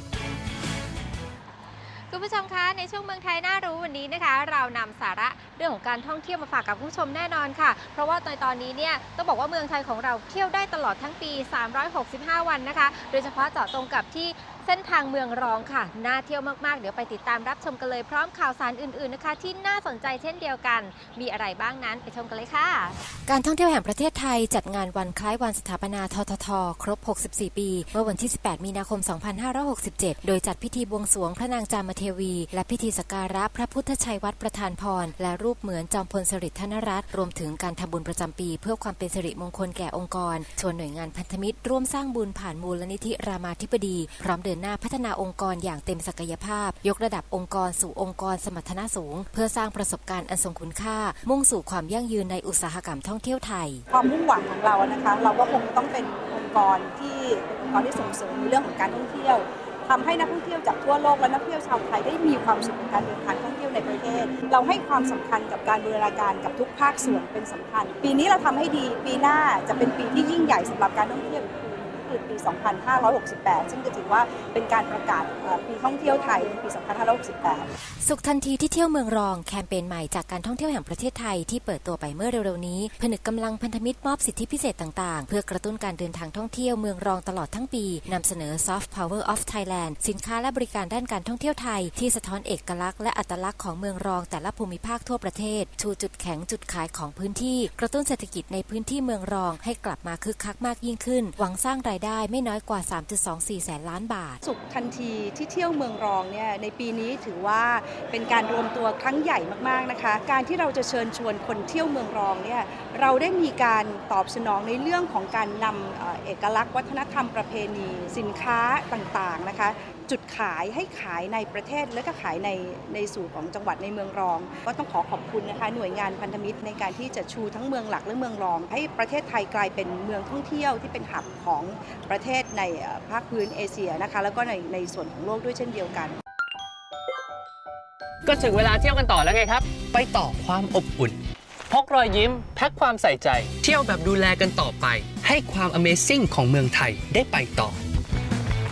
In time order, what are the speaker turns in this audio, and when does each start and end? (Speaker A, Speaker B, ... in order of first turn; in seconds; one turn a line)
Speaker A: 2.1-22.9
Speaker B: 23.3-53.8
Speaker C: 53.9-77.7
Speaker B: 78.0-104.3
Speaker C: 104.4-136.2
Speaker D: 143.6-144.6
Speaker D: 145.2-147.7